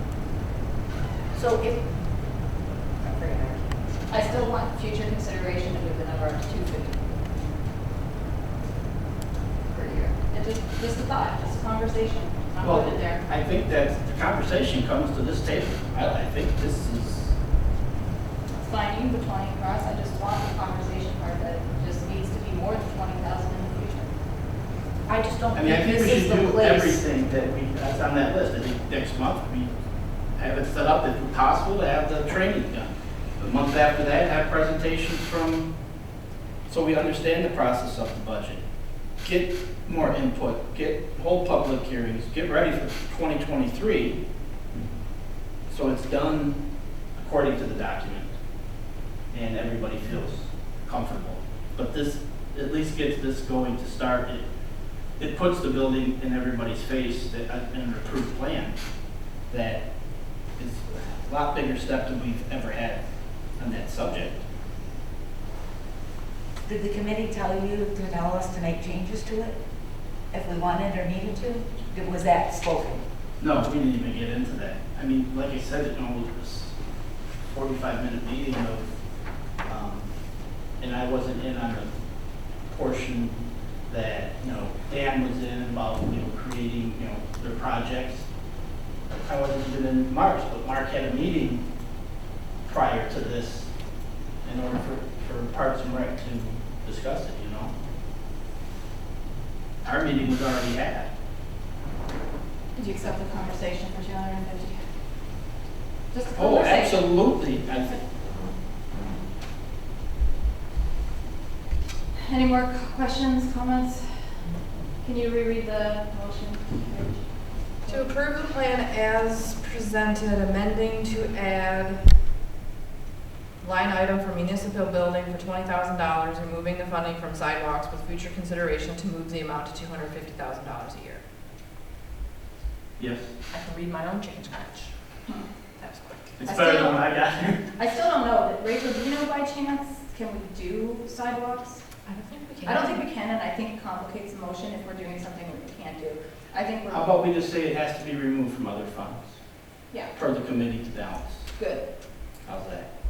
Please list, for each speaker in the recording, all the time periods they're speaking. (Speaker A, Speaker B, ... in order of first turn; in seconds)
Speaker A: 1.3-1.9, 3.0-4.4, 25.1-27.0, 66.6-69.6, 70.3-73.0
Speaker B: 4.1-7.0, 9.7-13.2, 18.5-24.1, 102.7-104.8, 106.1-107.1, 112.1-114.4, 115.0-118.1, 136.4-137.2, 137.8-141.9, 142.6-147.2, 149.9-150.1, 151.5-151.9
Speaker C: 12.6-17.3, 25.5-29.7, 30.4-35.7, 36.7-38.6, 39.2-44.2, 45.7-46.6, 47.1-48.3, 49.3-54.4, 55.2-58.7, 59.5-59.8, 60.5-63.0, 63.6-64.4, 73.4-76.7, 77.5-78.8, 79.6-80.1, 80.8-81.9, 82.7-88.2, 89.1-91.6, 92.7-93.7, 94.4-97.7, 99.8-101.1, 106.3-108.0, 133.0-133.3, 136.4-137.6, 146.9-149.4, 150.1-151.5, 152.4-152.9
Speaker D: 117.9-122.1, 123.6-131.2, 133.5-134.9, 135.8-136.3, 142.1-143.0